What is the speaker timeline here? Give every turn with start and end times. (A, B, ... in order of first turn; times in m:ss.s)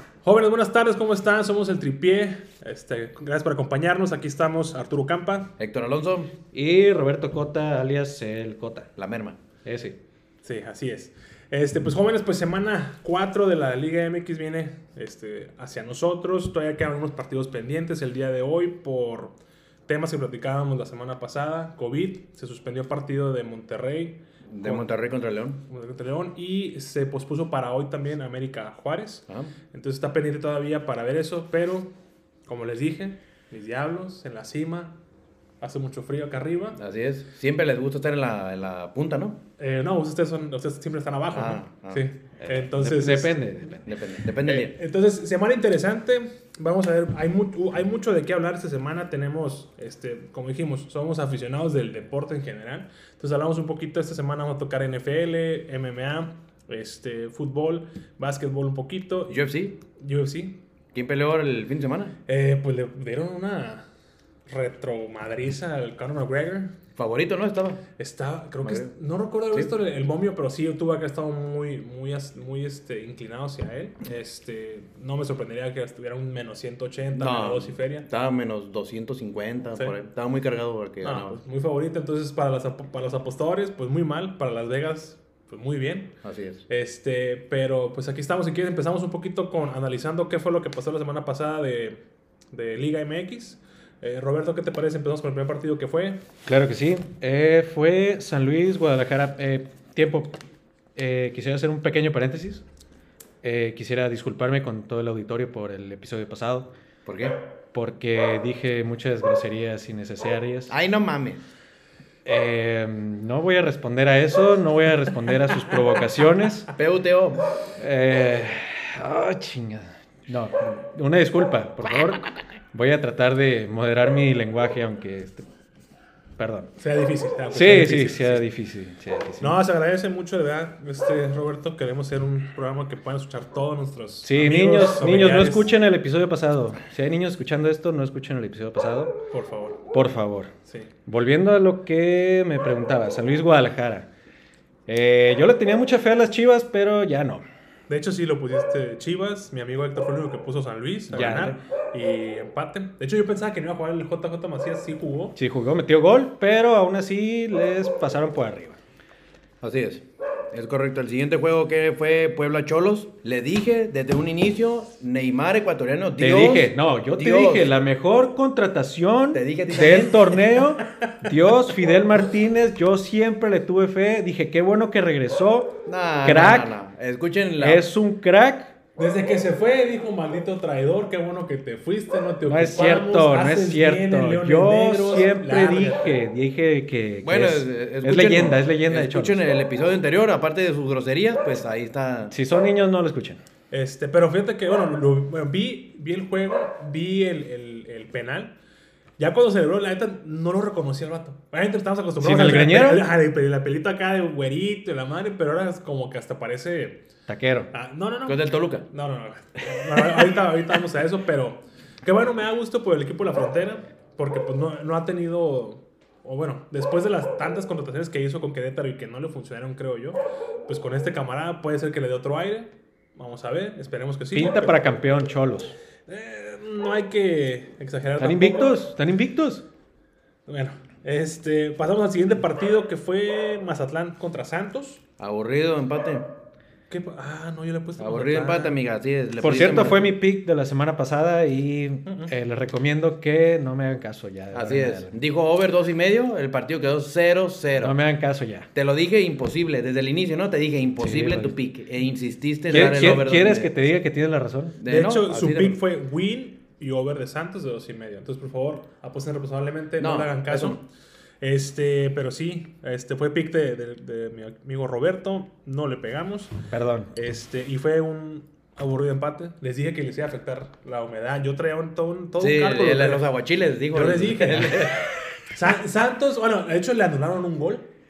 0:00.2-0:05.5 A
0:05.6-0:06.3 B
0:06.5-0:08.9 C
0:09.0-0:09.4 B
0:09.6-0:10.0 C
0:10.4-0:19.3 A
0:19.9-0:24.9 A
0:24.5-0:25.6 B
0:25.7-0:31.9 A
0:32.4-0:35.0 A
0:35.6-0:36.8 A
0:36.8-0:39.4 B
0:39.6-0:43.4 A
0:41.3-0:42.0 B
0:42.4-0:44.0 C
0:43.9-0:44.8 B
0:44.3-0:59.4 A
0:59.3-0:59.8 B
1:00.0-1:00.6 A
1:00.9-1:02.2 B
1:02.3-1:03.9 A
1:04.5-1:06.8 A
1:07.0-1:07.8 B
1:08.0-1:18.1 A
1:08.6-1:08.9 B
1:17.1-1:21.4 B
1:21.0-1:26.2 A
1:26.2-1:26.6 B
1:26.7-1:32.0 A
1:32.5-1:36.2 A
1:36.4-1:40.4 C
1:41.0-1:42.6 C
1:43.4-1:46.7 C
1:47.1-1:47.4 B
1:47.7-1:50.8 C
1:50.7-1:51.4 B
1:52.2-1:56.7 C
1:56.7-1:57.4 B
1:57.8-2:05.5 C
2:06.4-2:06.7 C
2:06.8-2:08.4 A
2:07.5-2:09.5 C
2:09.4-2:15.7 A
2:14.2-2:19.1 C
2:19.3-2:19.8 A
2:19.9-2:20.5 C
2:21.1-2:24.1 C
2:24.9-2:27.4 C
2:27.9-2:35.4 A
2:31.1-2:31.6 C
2:35.4-2:38.8 C
2:39.6-2:47.7 B
2:46.2-2:56.7 C
2:49.3-2:50.3 B
2:55.8-2:57.9 B
2:57.6-2:58.7 C
2:59.0-3:06.2 A
3:02.4-3:09.4 C
3:07.2-3:12.3 B
3:12.3-3:13.4 C
3:13.7-3:18.6 A
3:19.2-3:27.0 A
3:22.2-3:23.1 C
3:27.3-3:27.7 C
3:27.7-3:44.9 A
3:28.2-3:28.9 B
3:44.3-3:45.8 C
3:46.1-3:48.8 A
3:48.2-3:49.6 C
3:50.5-3:55.0 A
3:55.2-3:56.3 B
3:56.9-3:58.8 A
3:58.0-4:00.1 B
3:59.4-4:05.2 C
4:02.1-4:02.3 A
4:04.5-4:08.0 B
4:07.8-4:08.7 C
4:08.7-4:13.7 B
4:11.0-4:11.5 C
4:12.7-4:14.8 C
4:14.8-4:15.8 B
4:14.8-4:20.9 A
4:20.0-4:20.8 B
4:21.4-4:26.5 A
4:26.7-4:27.1 C
4:27.1-4:33.2 A
4:32.4-4:35.0 B
4:33.9-4:37.9 A